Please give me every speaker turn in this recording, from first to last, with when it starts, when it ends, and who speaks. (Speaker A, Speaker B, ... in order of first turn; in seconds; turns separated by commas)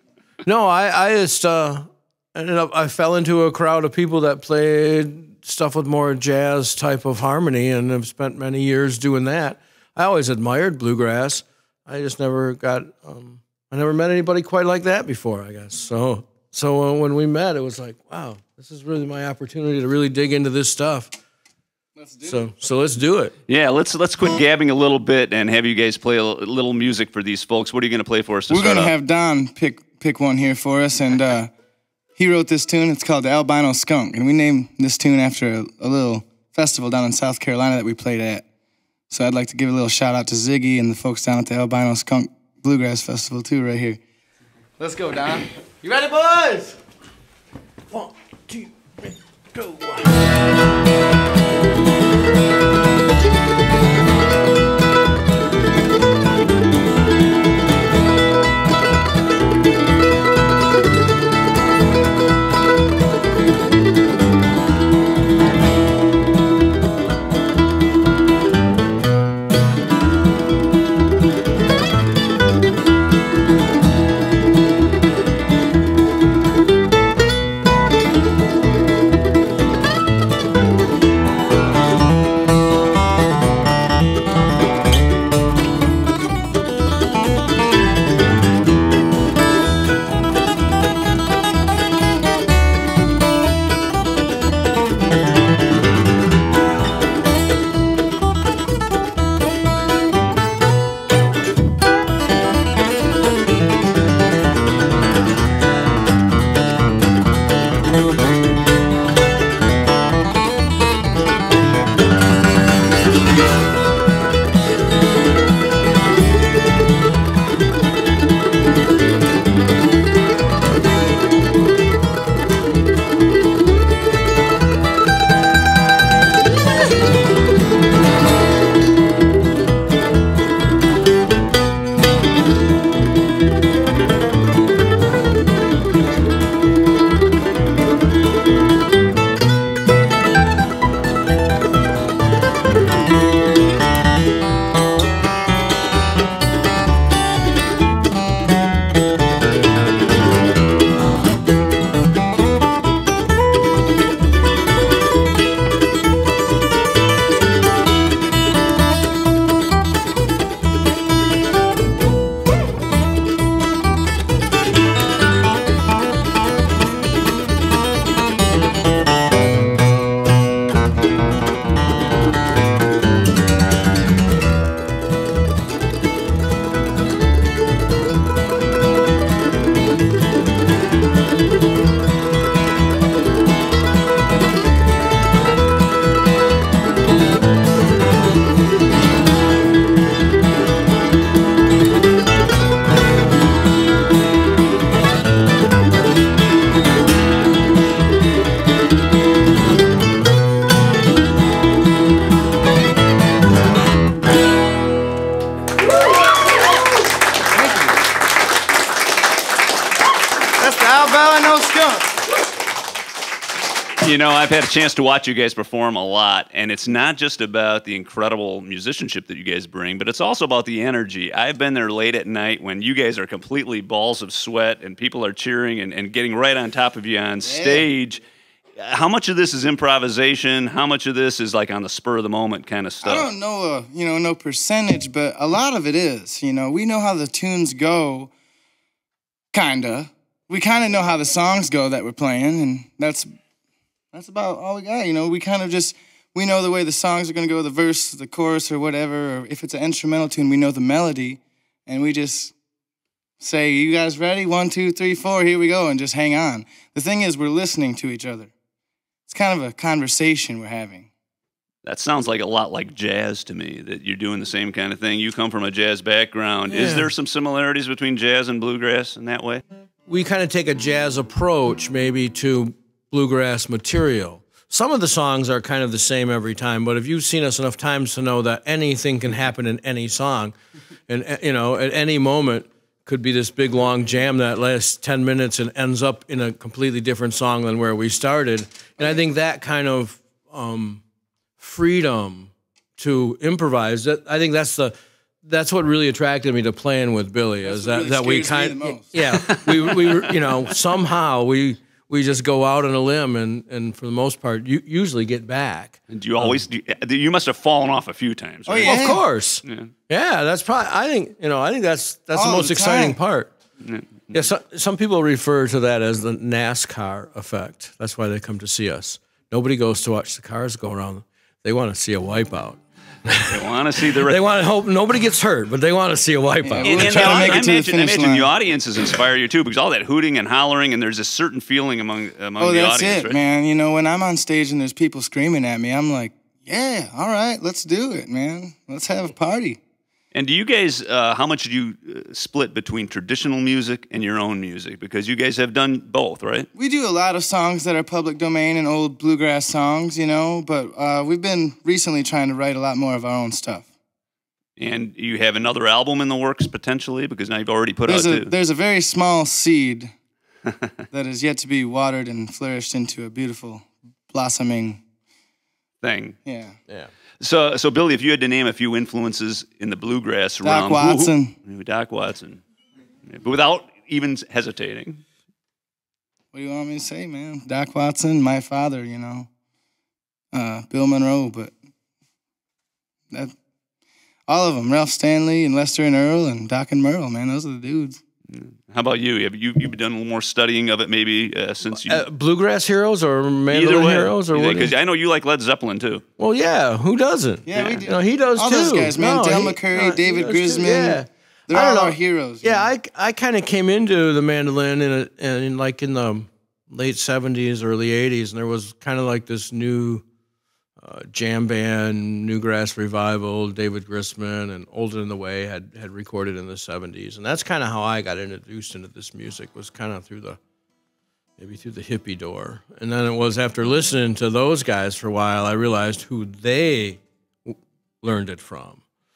Speaker A: 0.4-21.1, Speaker B: 22.0-22.5, Speaker A: 22.3-23.4, Speaker C: 23.5-28.9, Speaker B: 28.5-31.5, Speaker B: 32.2-38.5, Speaker B: 39.1-44.0, Speaker B: 44.8-46.8, Speaker B: 49.6-49.9, Speaker B: 207.6-207.9, Speaker B: 210.6-212.2, Speaker C: 214.0-228.2, Speaker B: 227.4-227.9, Speaker C: 228.8-233.3, Speaker B: 233.0-238.3, Speaker B: 239.5-243.3, Speaker B: 244.1-252.6, Speaker B: 253.4-258.5, Speaker B: 259.3-261.1, Speaker C: 261.9-269.6, Speaker A: 266.7-267.1, Speaker A: 270.1-280.6, Speaker A: 281.1-291.0, Speaker B: 289.0-289.3, Speaker A: 291.6-306.6, Speaker B: 297.6-299.1, Speaker C: 299.3-300.3, Speaker C: 306.1-309.0, Speaker B: 308.7-309.2, Speaker A: 308.8-313.5, Speaker C: 309.6-309.9, Speaker B: 312.3-313.2, Speaker C: 313.8-314.4, Speaker A: 314.3-327.5, Speaker C: 323.5-324.4, Speaker B: 326.6-328.5, Speaker C: 326.8-333.4, Speaker B: 332.6-339.8, Speaker C: 340.3-346.7, Speaker B: 346.8-353.9, Speaker C: 354.8-358.5, Speaker B: 358.1-360.1, Speaker B: 361.1-365.0, Speaker C: 366.0-366.4, Speaker B: 366.4-366.8, Speaker C: 367.4-372.6, Speaker B: 370.6-371.6, Speaker C: 373.3-375.2, Speaker B: 376.5-379.5, Speaker B: 380.5-381.7, Speaker B: 384.5-388.2, Speaker C: 388.5-392.2, Speaker A: 391.9-394.9, Speaker C: 393.7-396.2, Speaker A: 396.4-410.2, Speaker B: 397.7-402.9, Speaker A: 411.0-420.6, Speaker A: 421.6-429.0